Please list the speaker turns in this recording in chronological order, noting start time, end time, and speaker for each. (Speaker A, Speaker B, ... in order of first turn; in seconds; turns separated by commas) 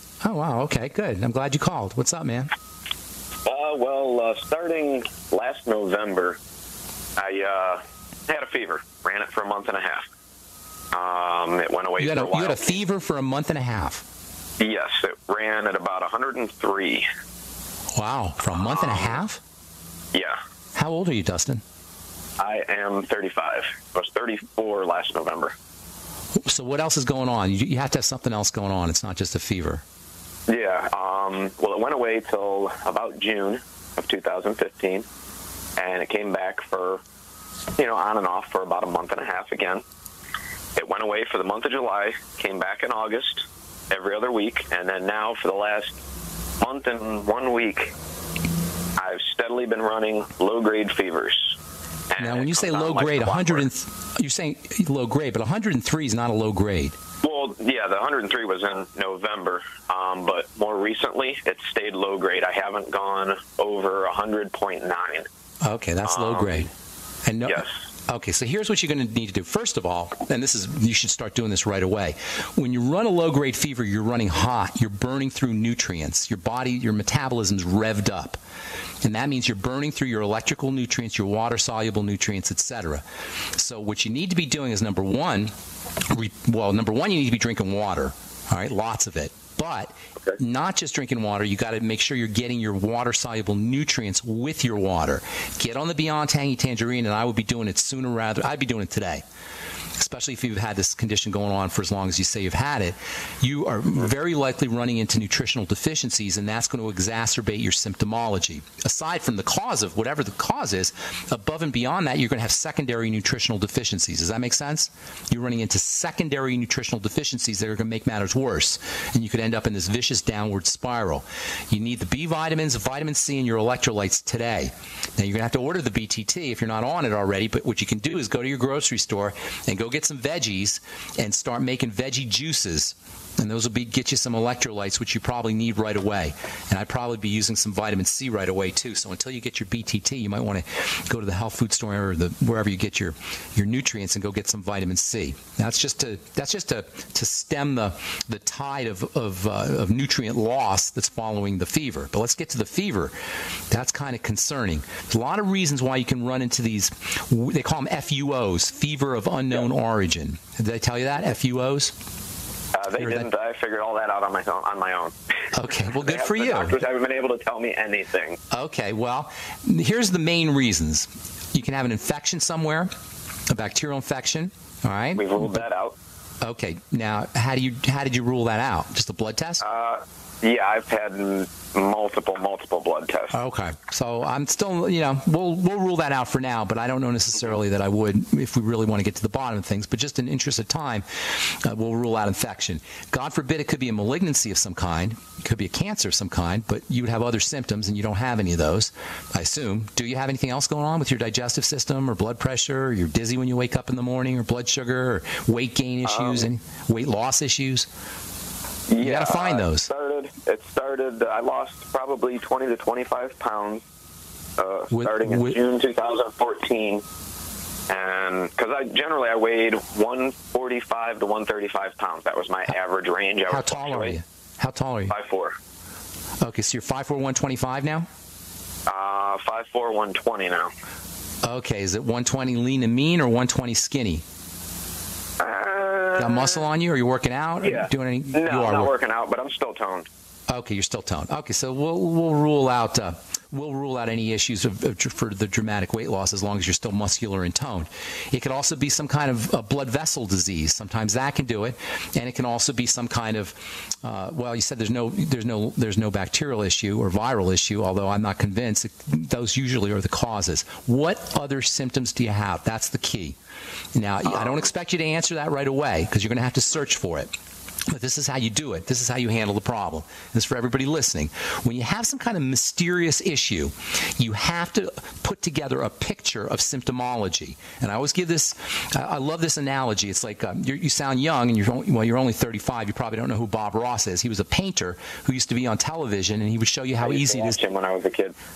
Speaker A: 0.2-2.5, Speaker B: 3.4-6.4, Speaker B: 7.2-10.1, Speaker B: 10.9-12.8, Speaker A: 12.0-14.0, Speaker B: 14.6-17.1, Speaker A: 17.9-19.4, Speaker B: 18.6-19.2, Speaker B: 20.1-20.4, Speaker A: 20.7-21.6, Speaker B: 22.4-25.5, Speaker A: 26.4-29.8, Speaker B: 30.5-35.0, Speaker B: 35.8-37.0, Speaker B: 37.8-39.8, Speaker B: 40.8-46.0, Speaker B: 46.6-47.9, Speaker B: 49.0-51.6, Speaker B: 52.1-53.7, Speaker A: 52.2-57.0, Speaker B: 57.2-65.3, Speaker A: 65.6-66.7, Speaker B: 66.0-66.7, Speaker A: 67.2-78.4, Speaker B: 67.5-67.7, Speaker A: 79.0-83.0, Speaker A: 83.5-85.5, Speaker A: 86.0-99.2, Speaker A: 100.0-153.1, Speaker A: 153.7-161.9, Speaker B: 162.7-165.1, Speaker A: 162.9-163.3, Speaker A: 165.5-166.8, Speaker B: 165.8-168.4, Speaker A: 168.5-172.9, Speaker A: 173.5-175.6, Speaker B: 175.1-176.0, Speaker A: 176.4-179.6, Speaker B: 179.6-183.4, Speaker A: 183.3-207.9, Speaker B: 206.0-206.4, Speaker B: 208.9-213.8, Speaker A: 209.0-209.9, Speaker B: 214.6-217.0, Speaker A: 214.9-215.6, Speaker B: 217.9-224.2, Speaker A: 223.5-225.2, Speaker B: 225.1-225.6, Speaker A: 226.4-228.1, Speaker B: 228.9-230.7, Speaker A: 231.4-234.2, Speaker B: 235.4-236.6, Speaker A: 236.2-238.9, Speaker B: 237.6-240.1, Speaker A: 240.5-263.4, Speaker A: 263.9-267.3, Speaker A: 267.9-287.6, Speaker B: 287.0-288.4